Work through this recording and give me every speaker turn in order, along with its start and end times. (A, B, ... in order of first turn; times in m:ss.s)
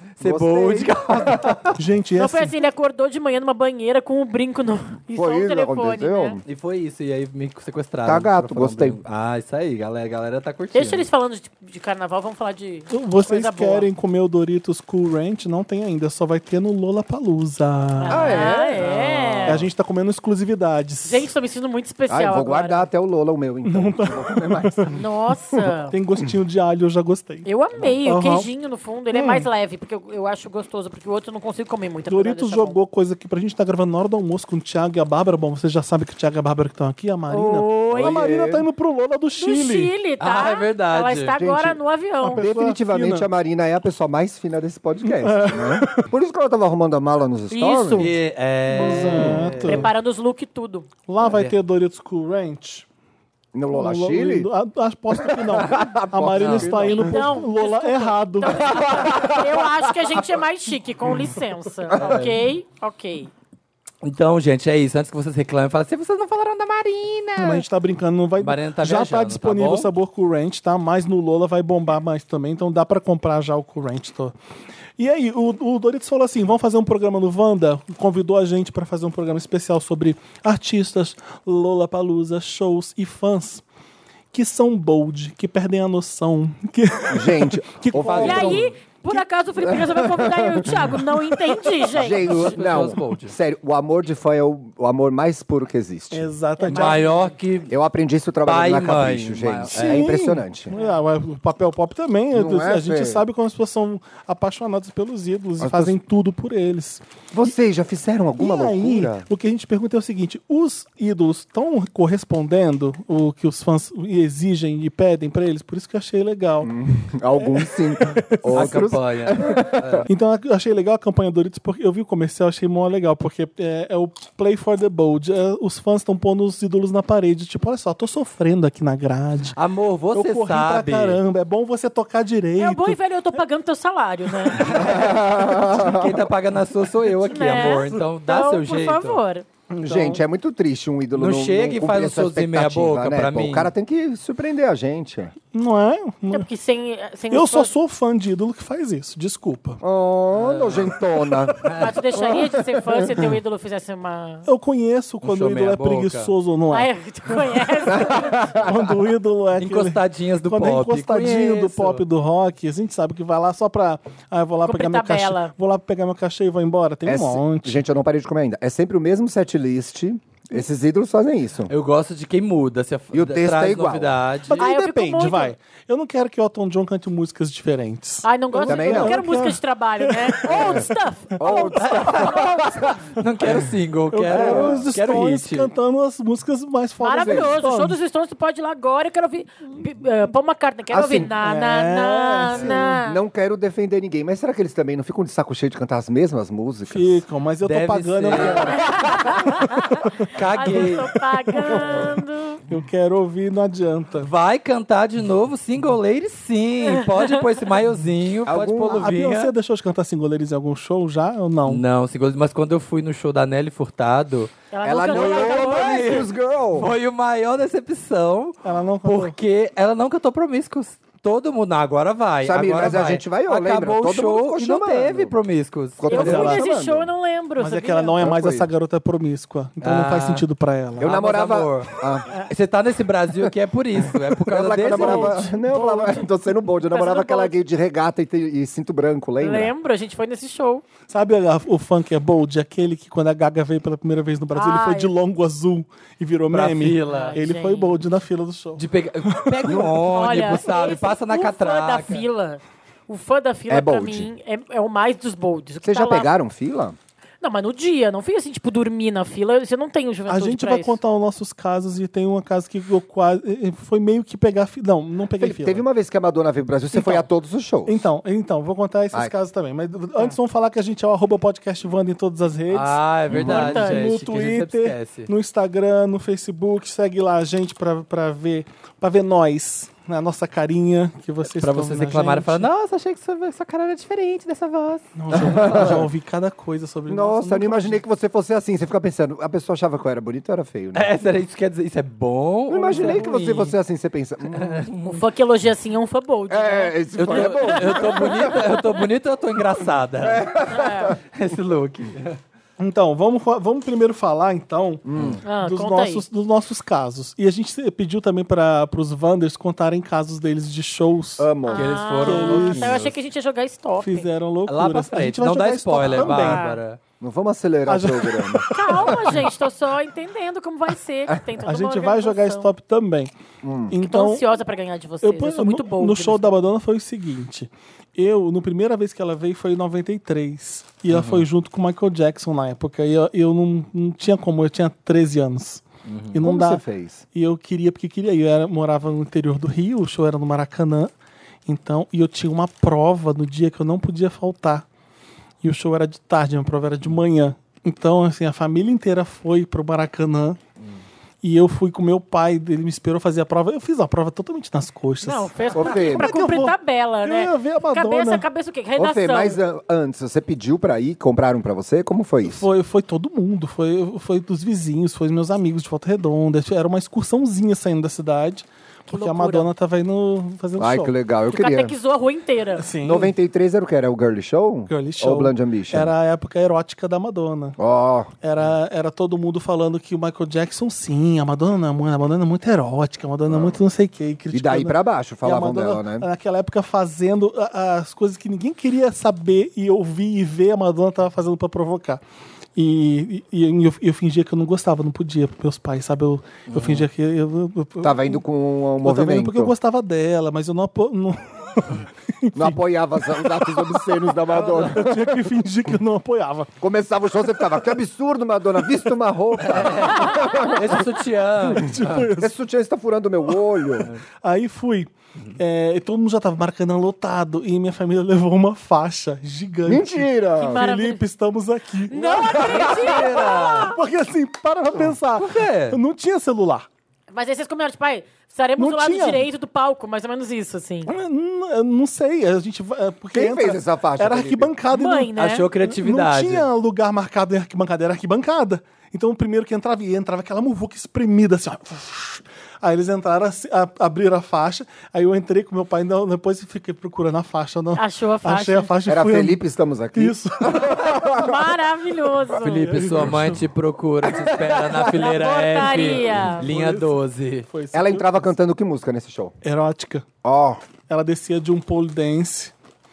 0:00.2-0:01.8 A
0:00.2-0:01.6 B
0:01.8-0:02.6 C
0:02.2-0:06.4 D
0:05.1-0:06.4 B
0:06.4-0:11.0 A
0:08.0-0:09.0 B
0:10.7-0:13.9 D
0:12.9-0:18.3 C
0:18.0-0:19.6 D
0:18.1-0:18.8 B
0:18.2-0:19.6 A
0:19.4-0:21.3 C
0:21.0-0:22.9 D
0:22.1-0:25.0 B
0:23.6-0:25.0 C
0:24.9-0:25.9 D
0:25.9-0:27.4 C
0:27.4-0:32.8 D
0:28.0-0:28.5 C
0:29.1-0:29.5 C
0:32.1-0:39.9 C
0:37.3-0:38.2 D
0:37.9-0:38.7 B
0:39.4-0:42.4 D
0:40.2-0:41.4 A
0:41.3-0:48.1 B
0:42.2-0:43.3 C
0:45.0-0:46.1 C
0:47.5-0:48.1 D
0:48.0-0:49.9 A
0:48.7-0:49.9 C
0:49.2-0:49.5 B
0:49.7-0:50.9 D
0:51.1-0:52.8 C
0:51.2-0:51.5 A
0:53.5-0:54.5 B
0:53.7-0:59.1 C
0:55.1-0:57.4 B
0:56.3-0:56.9 A
0:56.9-1:03.3 D
0:58.5-1:00.2 B
1:01.9-1:02.2 B
1:02.0-1:02.4 A
1:04.0-1:07.6 A
1:07.4-1:14.3 C
1:08.4-1:09.9 A
1:15.0-1:23.6 C
1:24.3-1:28.6 C
1:27.1-1:28.7 B
1:27.9-1:28.6 A
1:28.2-1:32.5 D
1:29.6-1:30.9 B
1:31.9-1:36.3 B
1:32.0-1:33.3 A
1:36.1-1:37.2 C
1:36.6-1:37.1 D
1:36.7-1:37.7 A
1:37.6-1:40.7 B
1:38.4-1:40.1 A
1:39.7-1:47.0 C
1:42.3-1:43.2 B
1:45.6-1:46.0 B
1:47.3-1:49.2 B
1:48.4-1:56.7 C
1:56.6-2:00.0 B
1:57.3-1:58.8 C
1:58.5-2:00.0 A
1:59.4-2:09.6 C
2:09.5-2:11.2 A
2:10.1-2:13.4 C
2:12.6-2:14.7 D
2:14.6-2:19.2 A
2:14.6-2:16.3 B
2:17.3-2:19.4 D
2:19.7-2:20.2 C
2:19.8-2:25.3 B
2:21.2-2:23.7 A
2:25.5-2:26.5 C
2:26.3-2:27.7 D
2:27.3-2:29.8 C
2:29.8-2:33.2 B
2:30.3-2:30.9 A
2:31.6-2:32.0 A
2:31.8-2:34.4 D
2:34.4-2:37.4 C
2:35.2-2:36.3 A
2:36.7-2:38.6 D
2:37.9-2:39.0 B
2:38.6-2:47.8 C
2:39.6-2:42.0 A
2:44.6-2:45.5 D
2:47.0-2:51.7 B
2:51.7-2:54.6 A
2:53.1-2:54.2 B
2:54.5-3:02.0 C
2:54.6-2:55.5 D
2:58.2-3:02.8 D
2:58.6-2:59.2 B
3:00.5-3:03.0 B
3:01.8-3:02.2 A
3:03.2-3:05.7 A
3:04.1-3:08.0 C
3:04.3-3:04.9 B
3:07.0-3:13.2 D
3:07.2-3:07.6 B
3:10.9-3:11.3 B
3:11.3-3:13.0 C
3:12.5-3:17.2 B
3:16.9-3:20.1 C
3:17.6-3:18.8 A
3:18.3-3:18.9 B
3:18.8-3:19.9 D
3:20.3-3:21.1 A
3:20.5-3:22.6 D
3:20.6-3:20.9 C
3:22.7-3:24.3 C
3:24.2-3:29.5 A
3:28.5-3:29.1 B
3:28.8-3:31.8 C
3:31.6-3:34.5 A
3:34.7-3:36.2 D
3:34.8-3:36.9 B
3:35.1-3:46.6 A
3:38.6-3:39.3 C
3:42.4-3:45.3 B
3:46.0-3:47.1 B
3:46.1-3:48.2 D
3:47.6-3:51.1 C
3:48.2-3:48.7 B
3:49.8-3:50.4 A
3:51.0-3:52.2 B
3:51.0-3:51.9 A
3:52.5-3:55.5 A
3:54.4-3:59.7 B
3:54.9-3:56.3 D
3:56.8-3:57.5 D
3:59.4-4:00.8 D
4:01.1-4:09.8 C
4:04.5-4:05.1 D
4:06.5-4:07.4 A
4:07.1-4:07.9 D
4:08.8-4:12.2 A
4:09.6-4:10.6 B
4:10.1-4:16.3 D
4:13.7-4:14.3 B
4:15.8-4:17.0 B
4:17.4-4:21.0 D
4:20.3-4:25.8 C
4:25.4-4:28.0 B
4:26.9-4:27.3 C
4:27.8-4:42.6 C
4:32.7-4:35.3 A
4:33.3-4:33.6 B
4:33.4-4:34.1 D
4:41.6-4:46.0 A
4:45.2-4:48.0 C
4:45.3-4:46.1 B
4:47.1-4:51.2 B
4:50.9-4:53.7 A
4:52.7-4:54.8 B
4:54.5-4:55.2 A
4:55.0-4:58.6 D
4:56.5-4:58.8 B
4:57.2-5:00.5 A
5:00.2-5:01.2 B
5:00.7-5:01.1 D
5:01.2-5:02.4 A
5:02.8-5:05.0 C
5:05.0-5:05.4 B
5:05.4-5:06.2 D
5:05.6-5:11.5 C
5:11.4-5:12.1 B
5:11.6-5:14.3 D
5:11.7-5:13.2 A
5:12.2-5:13.0 C
5:14.0-5:16.6 C
5:14.7-5:17.0 A
5:16.0-5:16.4 B
5:16.3-5:16.8 D
5:17.2-5:19.3 B
5:17.9-5:19.5 C
5:18.7-5:22.7 D
5:21.6-5:23.3 C
5:23.6-5:24.0 B
5:23.9-5:24.5 C
5:24.0-5:26.5 D
5:25.2-5:36.8 C
5:31.1-5:31.4 A
5:36.0-5:36.4 A
5:36.4-5:37.2 B
5:37.3-5:41.1 C
5:41.6-5:44.8 C
5:45.6-5:50.6 C
5:51.4-5:58.5 C
5:55.2-5:59.6 D
5:55.7-5:56.5 B
5:59.0-6:02.6 B
6:02.4-6:11.1 C
6:09.1-6:09.7 D
6:10.8-6:11.9 B
6:11.5-6:12.8 D
6:12.8-6:13.3 C
6:13.0-6:16.1 B
6:14.9-6:17.8 C
6:17.8-6:18.3 B
6:18.4-6:32.2 C
6:23.5-6:23.8 B
6:24.5-6:26.3 B
6:32.8-6:38.4 C
6:36.7-6:37.1 A
6:38.0-6:39.7 B
6:39.0-6:46.7 C
6:42.5-6:45.5 B
6:44.5-6:45.0 A
6:46.8-6:51.1 B
6:49.6-6:52.3 A
6:51.6-6:52.5 C
6:52.4-6:54.1 B
6:53.5-7:06.9 C
6:59.8-7:00.9 B
7:00.6-7:01.2 D
7:02.1-7:04.0 D
7:02.6-7:03.9 A
7:05.4-7:06.0 A
7:07.3-7:11.1 D
7:08.8-7:09.4 C
7:11.1-7:29.6 C
7:13.3-7:14.7 B
7:14.9-7:15.6 D
7:15.4-7:16.7 A
7:28.0-7:28.9 D
7:29.0-7:31.6 B
7:30.1-7:31.3 C
7:31.4-7:32.9 D
7:32.6-7:37.7 A
7:32.8-7:33.6 C
7:35.1-7:36.6 D
7:35.8-7:38.5 C
7:37.9-7:39.5 B
7:39.6-7:40.2 C
7:40.4-7:40.8 B
7:41.1-7:42.7 C